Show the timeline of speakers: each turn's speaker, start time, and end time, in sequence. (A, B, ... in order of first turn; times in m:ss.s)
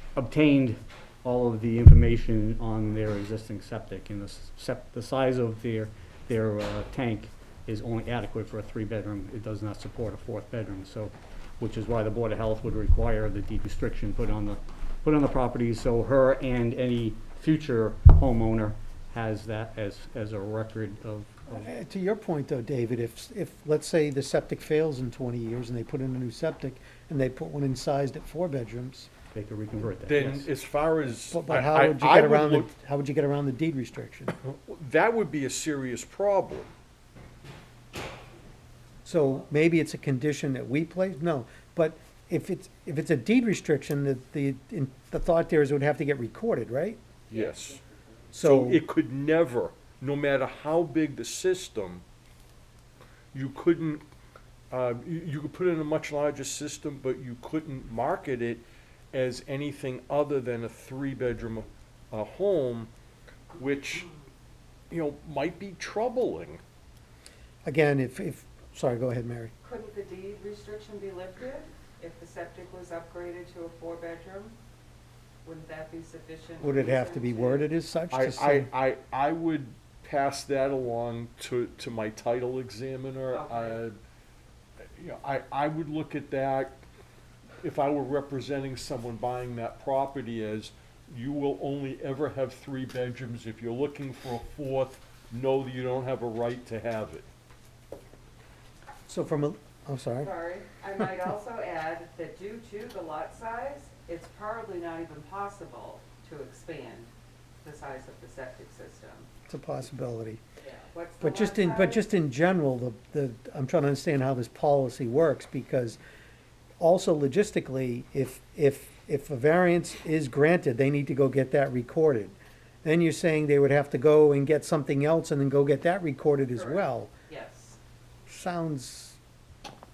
0:00.1-0:21.7 A
0:21.5-0:29.1 B
0:29.3-0:30.5 A
0:30.0-0:32.7 C
0:31.3-0:34.3 B
0:34.4-0:36.7 C
0:39.0-0:47.0 B
0:47.3-0:47.8 C
0:48.3-0:48.8 B
0:48.4-0:52.0 C
0:53.3-0:54.0 C
0:54.7-1:02.9 C
1:03.6-1:04.1 C
1:04.9-1:06.6 C
1:07.6-1:09.5 B
1:09.6-1:14.6 D
1:15.4-1:17.7 D
1:16.6-1:18.7 B
1:18.1-1:24.0 C
1:23.3-1:23.8 D
1:24.9-1:26.8 C
1:27.6-1:37.2 C
1:39.1-1:40.3 B
1:40.2-1:47.1 D
1:47.6-1:49.3 D
1:49.5-1:50.4 B
1:50.6-1:52.0 D
1:51.2-1:56.0 B
1:56.8-2:07.1 B
2:06.5-2:07.8 D
2:08.3-2:09.2 B